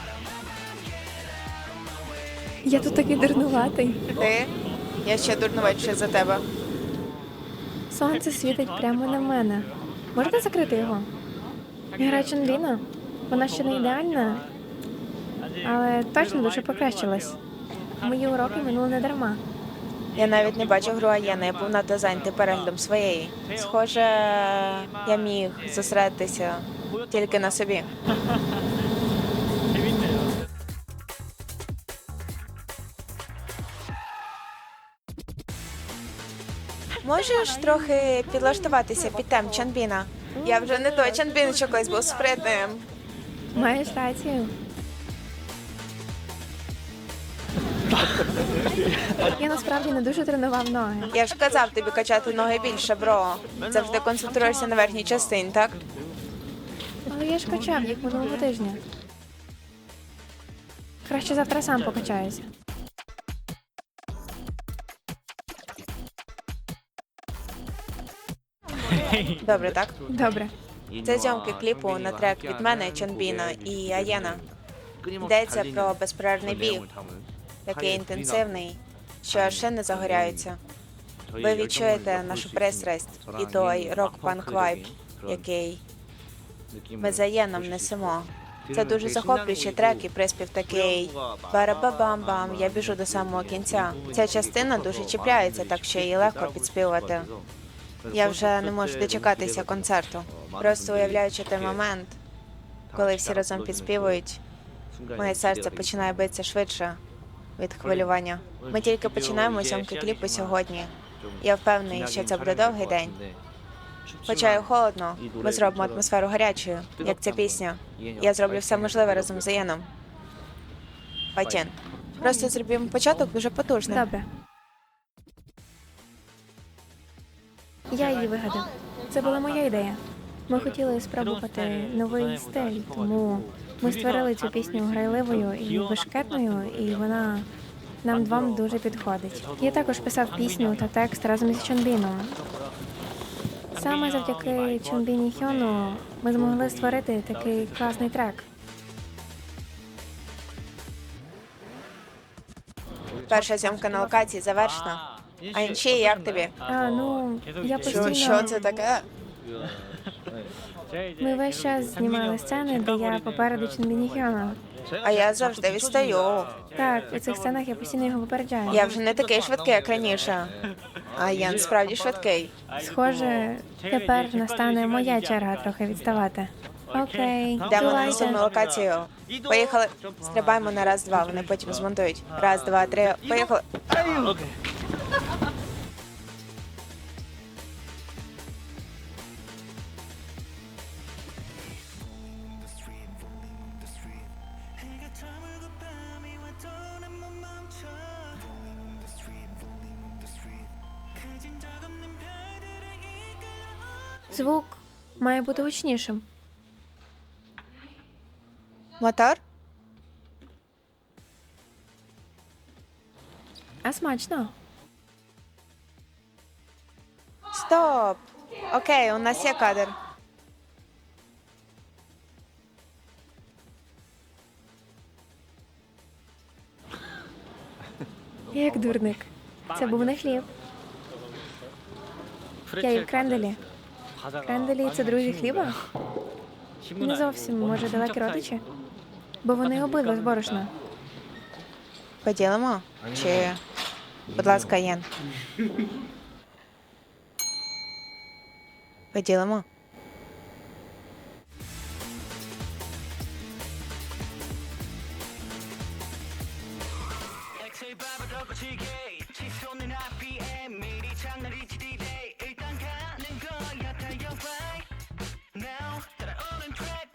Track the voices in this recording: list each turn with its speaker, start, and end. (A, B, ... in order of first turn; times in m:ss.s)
0:02.6-0:04.0 A
0:04.1-0:06.4 B
0:07.9-0:11.1 A
0:12.0-0:14.5 A
0:15.6-0:17.4 A
0:18.0-0:19.4 A
0:20.1-0:27.9 B
0:37.0-0:42.8 B
0:40.4-0:40.8 A
0:43.5-0:44.5 A
0:49.2-0:51.1 A
0:51.1-0:55.8 B
0:57.1-0:58.8 A
1:01.0-1:02.5 A
1:09.2-1:10.0 B
1:10.1-1:10.5 A
1:11.0-1:14.4 B
1:15.2-1:16.9 B
1:17.6-1:20.6 B
1:21.4-1:25.8 B
1:27.0-1:37.3 B
1:38.1-1:42.2 B
1:42.9-1:44.4 B
1:45.1-1:47.0 B
1:47.6-1:53.2 B
1:54.2-1:59.9 B
2:01.3-2:04.1 B
2:03.9-2:04.2 A
2:07.9-2:17.5 A
2:18.0-2:22.4 A
2:23.7-2:28.4 A
2:33.3-2:36.5 B
2:33.3-2:34.2 A
2:36.6-2:38.6 A
2:37.8-2:39.1 B
2:41.2-2:44.6 A
2:45.0-2:46.6 B
2:46.7-2:48.9 A
2:48.7-2:50.6 B
2:51.1-2:52.5 B
2:52.8-2:58.4 A
2:57.6-3:03.6 B
3:24.3-3:26.2 A
3:29.0-3:29.4 B
3:33.8-3:34.5 A
3:37.5-3:39.9 B
3:48.5-3:50.5 A
3:52.7-3:53.6 A
3:54.4-3:55.8 A
3:57.0-3:58.6 A
3:59.4-4:00.7 A
4:02.2-4:03.6 B
4:04.3-4:05.0 B
4:09.1-4:09.6 B